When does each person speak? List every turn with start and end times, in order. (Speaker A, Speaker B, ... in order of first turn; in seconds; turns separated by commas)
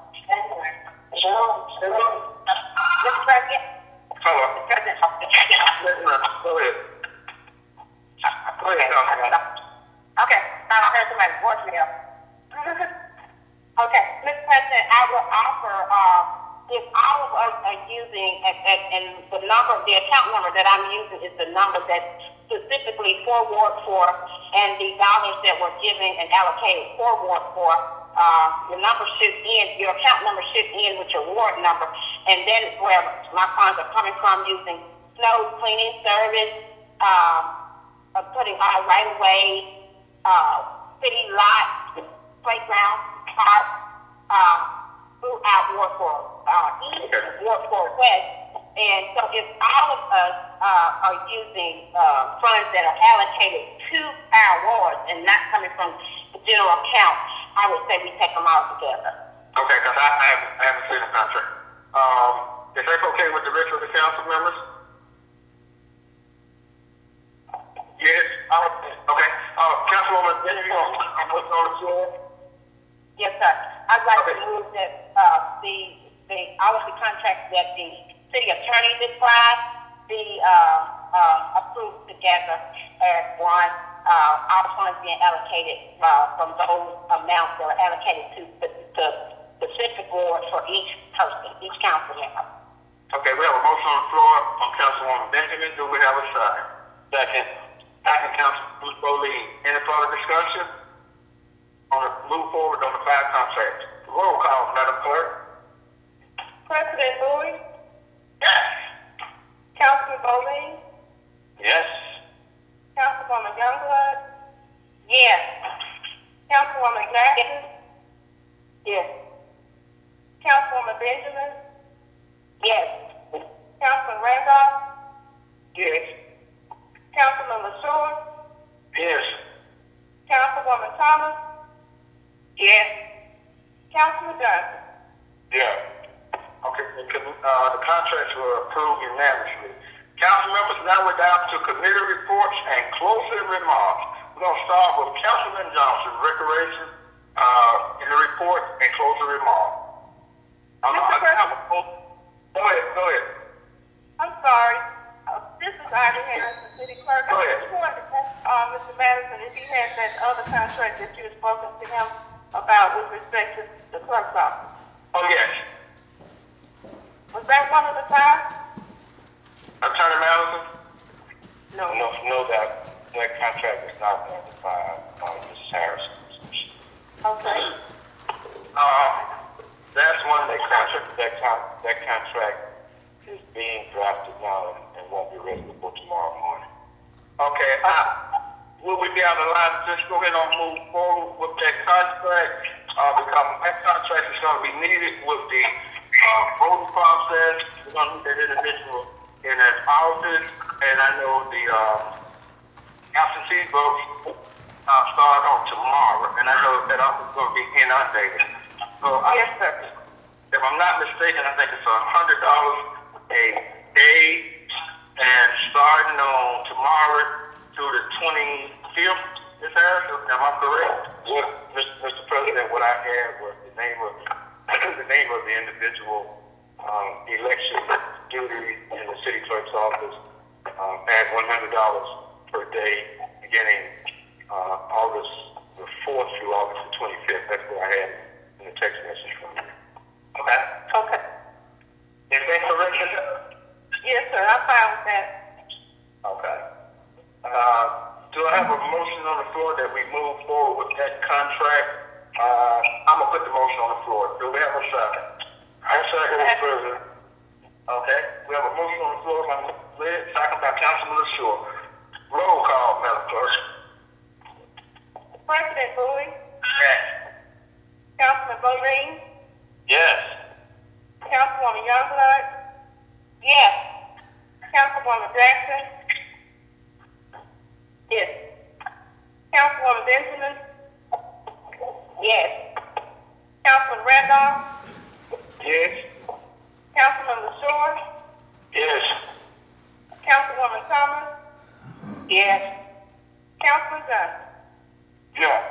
Speaker A: 0.3-0.6, Speaker A: 1.1-2.1, Speaker A: 3.0-3.6, Speaker B: 4.2-4.5, Speaker A: 4.6-5.6, Speaker B: 5.6-6.8, Speaker B: 8.6-9.4, Speaker A: 8.7-9.4, Speaker A: 10.2-11.9, Speaker A: 13.8-37.5, Speaker A: 38.1-39.6, Speaker A: 40.2-41.7, Speaker A: 42.4-43.6, Speaker A: 44.3-44.7, Speaker A: 45.2-48.2, Speaker A: 48.8-59.1, Speaker B: 59.5-64.6, Speaker B: 68.0-72.1, Speaker A: 73.2-92.4, Speaker B: 93.1-97.5, Speaker B: 98.0-100.7, Speaker B: 101.9-105.3, Speaker C: 106.7-107.6, Speaker C: 109.7-110.8, Speaker C: 113.0-114.2, Speaker A: 115.1-115.4, Speaker C: 116.5-117.7, Speaker C: 120.4-121.5, Speaker A: 122.6-122.9, Speaker C: 123.8-124.8, Speaker C: 127.1-128.2, Speaker B: 128.9-129.2, Speaker C: 130.3-131.4, Speaker C: 132.6-132.9, Speaker C: 133.9-134.7, Speaker B: 136.6-149.7, Speaker B: 150.8-151.6, Speaker C: 150.8-151.5, Speaker B: 152.5-153.2, Speaker C: 154.2-164.5, Speaker B: 157.3-157.6, Speaker B: 165.1-165.5, Speaker C: 167.3-168.4, Speaker B: 169.8-170.6, Speaker C: 171.7-172.0, Speaker D: 171.9-176.6, Speaker C: 177.2-177.7, Speaker B: 178.7-179.2, Speaker B: 179.9-181.0, Speaker D: 181.0-182.6, Speaker D: 183.5-186.6, Speaker B: 187.4-188.0, Speaker B: 188.8-202.1, Speaker B: 203.1-204.0, Speaker B: 204.9-208.4, Speaker B: 209.0-209.4, Speaker C: 209.2-209.8, Speaker B: 210.5-212.8, Speaker B: 213.3-214.4, Speaker B: 215.2-221.1, Speaker D: 221.2-224.1, Speaker D: 224.8-226.3, Speaker D: 226.8-230.1, Speaker D: 230.8-233.9, Speaker D: 234.5-239.7, Speaker B: 242.3-243.1, Speaker C: 244.0-245.3, Speaker B: 246.2-246.6, Speaker B: 247.4-255.2, Speaker B: 255.8-257.0, Speaker B: 257.9-261.6, Speaker B: 262.3-263.6, Speaker C: 265.4-266.3, Speaker C: 268.2-269.2, Speaker C: 271.2-272.4, Speaker C: 273.4-273.7, Speaker C: 274.7-275.9, Speaker C: 279.5-280.6, Speaker A: 282.2-282.5, Speaker C: 283.6-284.6, Speaker B: 285.6-285.9, Speaker C: 286.9-288.0, Speaker B: 288.7-289.0, Speaker C: 290.2-291.3, Speaker A: 292.3-292.6, Speaker C: 293.6-294.3